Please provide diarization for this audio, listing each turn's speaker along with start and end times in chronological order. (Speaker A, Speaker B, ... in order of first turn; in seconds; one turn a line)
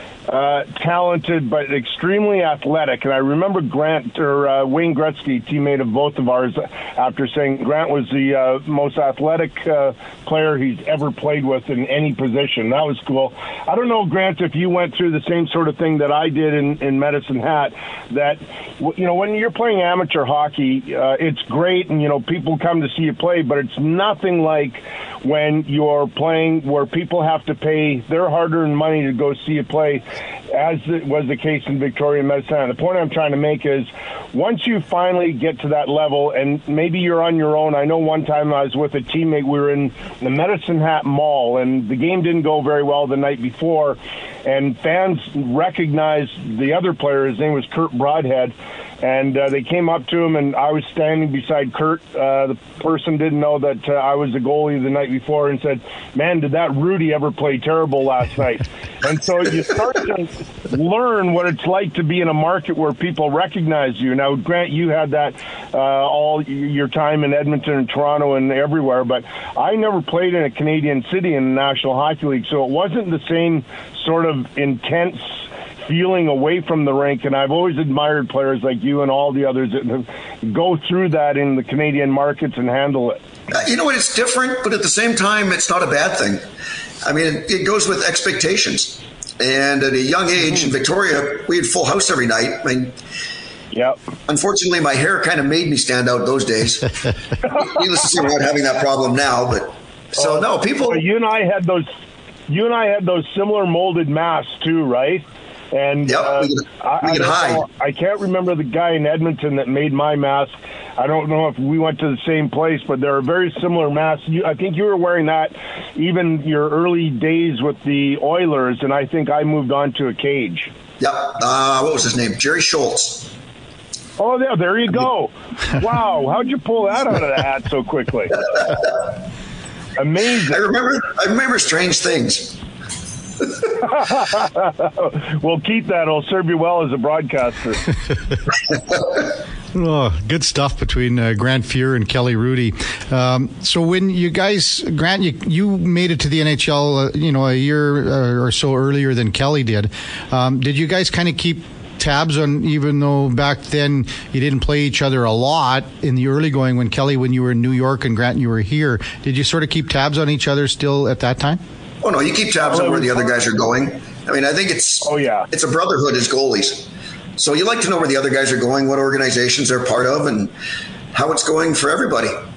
Speaker A: 0.3-83.2
Speaker B: 83.5-86.4
Speaker B: 87.0-93.0
Speaker A: 93.7-94.0
Speaker B: 94.3-96.9
Speaker B: 97.5-101.0
Speaker A: 100.2-101.9
Speaker A: 102.5-120.7
Speaker B: 106.1-107.6
Speaker B: 121.0-123.3
Speaker A: 124.2-128.4
Speaker A: 130.0-130.7
Speaker B: 130.5-132.6
Speaker A: 133.8-137.9
Speaker C: 139.7-161.6
Speaker B: 162.0-170.5
Speaker A: 162.7-163.5
Speaker A: 165.0-165.5
Speaker B: 171.1-172.4